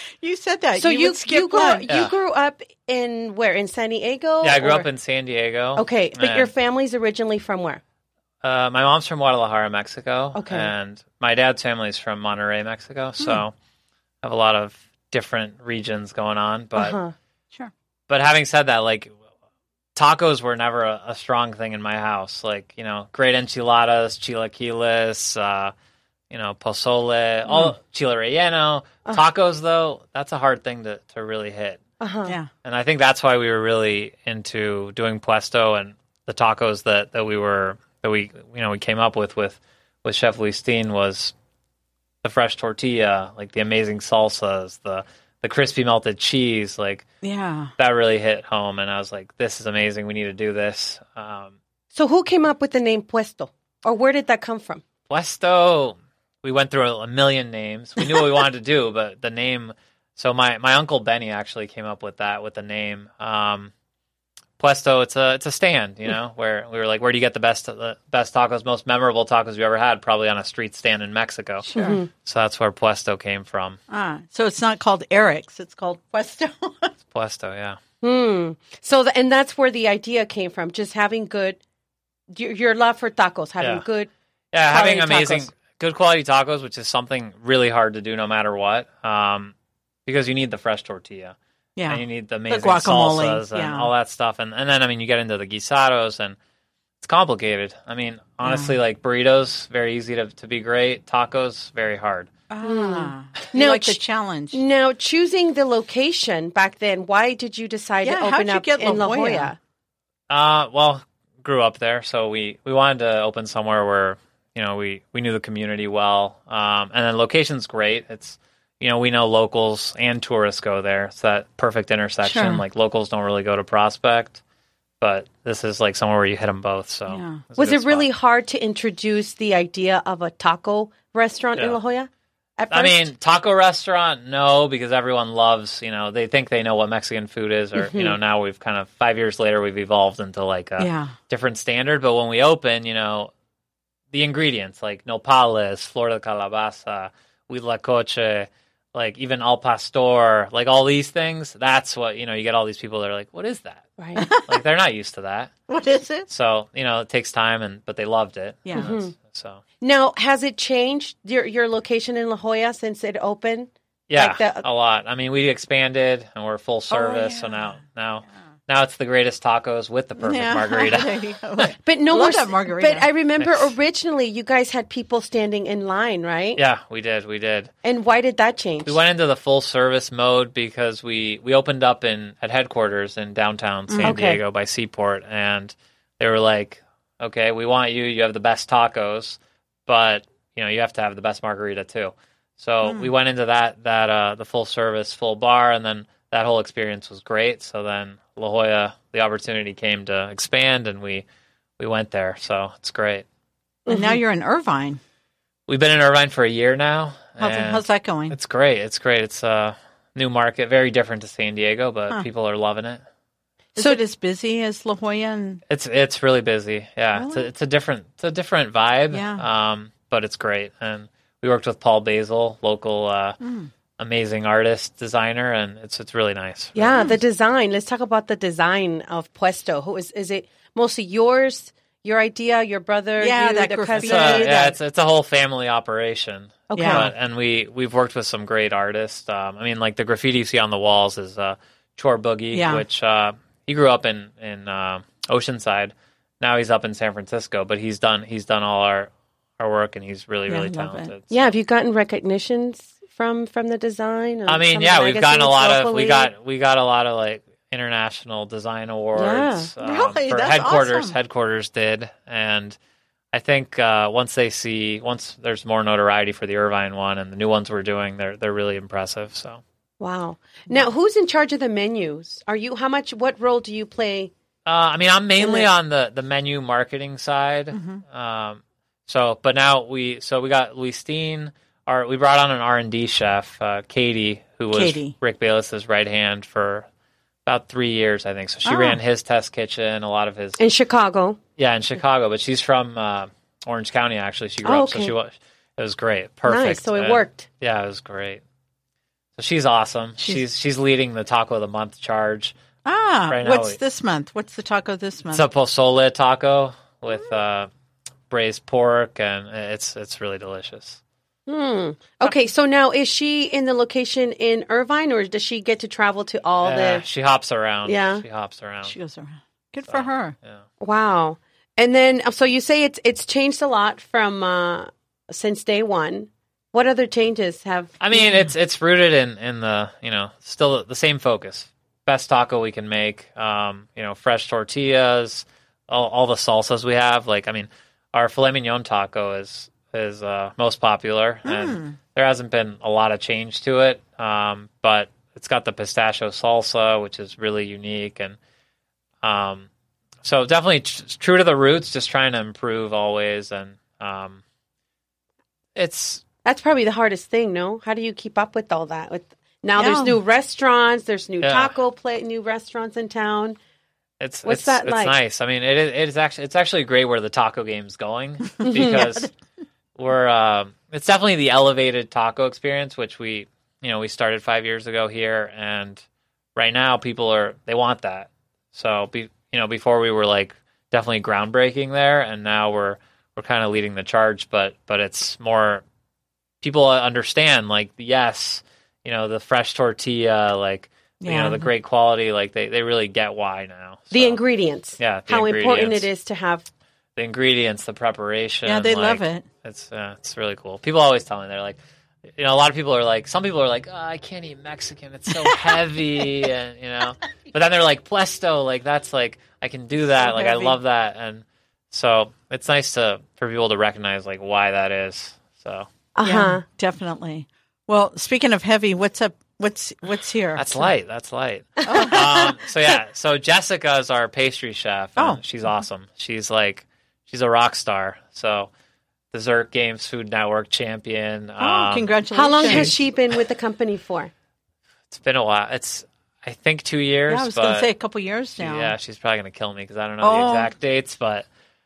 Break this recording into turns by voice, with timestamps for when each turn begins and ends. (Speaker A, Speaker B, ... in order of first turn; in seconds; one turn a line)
Speaker A: 0.2-1.9
Speaker B: 0.8-4.9
Speaker C: 4.4-6.5
Speaker B: 5.8-7.8
Speaker C: 8.4-13.5
Speaker B: 10.3-10.7
Speaker C: 14.2-17.0
Speaker B: 16.8-17.1
Speaker C: 18.1-19.1
Speaker C: 19.9-25.7
Speaker C: 26.3-31.8
Speaker B: 32.0-32.4
Speaker C: 32.6-41.3
Speaker C: 42.2-47.1
Speaker A: 47.2-47.7
Speaker C: 47.8-51.5
Speaker B: 51.9-54.8
Speaker C: 55.1-63.7
Speaker C: 64.6-73.8
Speaker A: 71.6-72.0
Speaker B: 71.7-72.1
Speaker A: 73.9-76.9
Speaker C: 77.1-77.8
Speaker B: 78.0-81.6
Speaker B: 82.3-84.1
Speaker C: 84.5-89.5
Speaker B: 84.7-85.5
Speaker C: 90.0-91.3
Speaker A: 91.8-93.9
Speaker C: 91.9-96.3
Speaker C: 97.0-102.3
Speaker A: 98.5-98.7
Speaker A: 102.5-104.6
Speaker B: 102.6-104.0
Speaker B: 104.5-109.6
Speaker A: 108.0-109.5
Speaker C: 110.3-124.4
Speaker A: 122.2-122.6
Speaker C: 125.0-128.1
Speaker A: 127.1-127.4
Speaker B: 127.6-133.1
Speaker C: 132.7-143.3
Speaker B: 137.8-138.2
Speaker A: 140.8-141.1
Speaker C: 144.1-153.9
Speaker B: 154.0-154.3
Speaker A: 154.2-154.6
Speaker C: 154.4-155.5
Speaker A: 155.7-156.3
Speaker C: 156.3-159.6
Speaker A: 158.7-158.9
Speaker B: 158.7-159.1
Speaker B: 159.8-164.6
Speaker C: 164.1-171.7
Speaker A: 166.9-167.7
Speaker A: 170.2-173.1
Speaker B: 171.8-176.6
Speaker C: 173.4-173.7
Speaker C: 176.6-177.7
Speaker B: 177.8-179.0
Speaker C: 178.8-201.2
Speaker A: 183.9-184.1
Speaker B: 184.0-184.4
Speaker A: 192.8-193.1
Speaker C: 201.8-203.2
Speaker B: 203.8-204.2
Speaker A: 203.9-205.0
Speaker C: 205.7-213.0
Speaker A: 207.4-208.3
Speaker B: 213.8-214.0
Speaker A: 213.8-215.6
Speaker C: 215.7-223.4
Speaker A: 217.1-217.5
Speaker A: 219.1-219.4
Speaker A: 223.4-223.7
Speaker C: 224.0-227.1
Speaker B: 226.7-234.5
Speaker A: 226.9-227.2
Speaker A: 233.2-234.7
Speaker C: 234.0-251.5
Speaker B: 236.7-237.1
Speaker A: 236.7-237.1
Speaker A: 242.5-242.8
Speaker A: 250.5-251.1
Speaker B: 251.3-256.3
Speaker C: 254.5-262.8
Speaker B: 259.1-259.7
Speaker A: 259.8-261.1
Speaker C: 263.3-269.6
Speaker B: 270.0-274.3
Speaker C: 274.6-286.9
Speaker B: 275.4-275.7
Speaker A: 277.7-278.0
Speaker A: 284.7-285.1
Speaker C: 287.4-290.6
Speaker A: 288.6-289.0
Speaker B: 290.6-291.4
Speaker C: 291.6-298.4
Speaker B: 294.6-295.1
Speaker B: 296.5-297.4
Speaker C: 299.4-302.6
Speaker A: 302.8-305.4
Speaker C: 303.3-303.8
Speaker C: 305.3-307.7
Speaker C: 308.3-311.0
Speaker B: 311.5-317.0
Speaker C: 316.6-318.9
Speaker B: 317.8-318.2
Speaker A: 318.9-320.3
Speaker C: 319.9-320.6
Speaker B: 320.8-328.0
Speaker C: 328.0-348.4
Speaker A: 328.1-328.4
Speaker A: 341.4-341.9
Speaker C: 349.2-349.7
Speaker C: 350.2-354.4
Speaker C: 355.8-356.2
Speaker B: 356.4-363.6
Speaker A: 359.8-360.2
Speaker C: 361.4-361.7
Speaker C: 364.2-369.3
Speaker B: 364.4-365.1
Speaker B: 368.6-369.0
Speaker A: 368.8-369.2
Speaker C: 369.9-376.0
Speaker C: 376.6-385.8
Speaker C: 386.6-394.4
Speaker A: 391.2-391.7
Speaker B: 394.1-396.6
Speaker C: 395.0-396.1
Speaker C: 397.1-401.8
Speaker A: 398.6-399.4
Speaker C: 402.4-415.9
Speaker A: 410.2-410.8
Speaker B: 416.1-416.6
Speaker A: 416.2-420.9
Speaker C: 420.6-428.7
Speaker A: 421.9-422.5
Speaker B: 421.9-422.4
Speaker C: 429.3-432.1
Speaker A: 431.6-433.0
Speaker B: 432.3-434.3
Speaker C: 432.6-432.9
Speaker C: 435.1-437.9
Speaker A: 437.3-438.9
Speaker C: 438.6-441.4
Speaker A: 440.2-440.7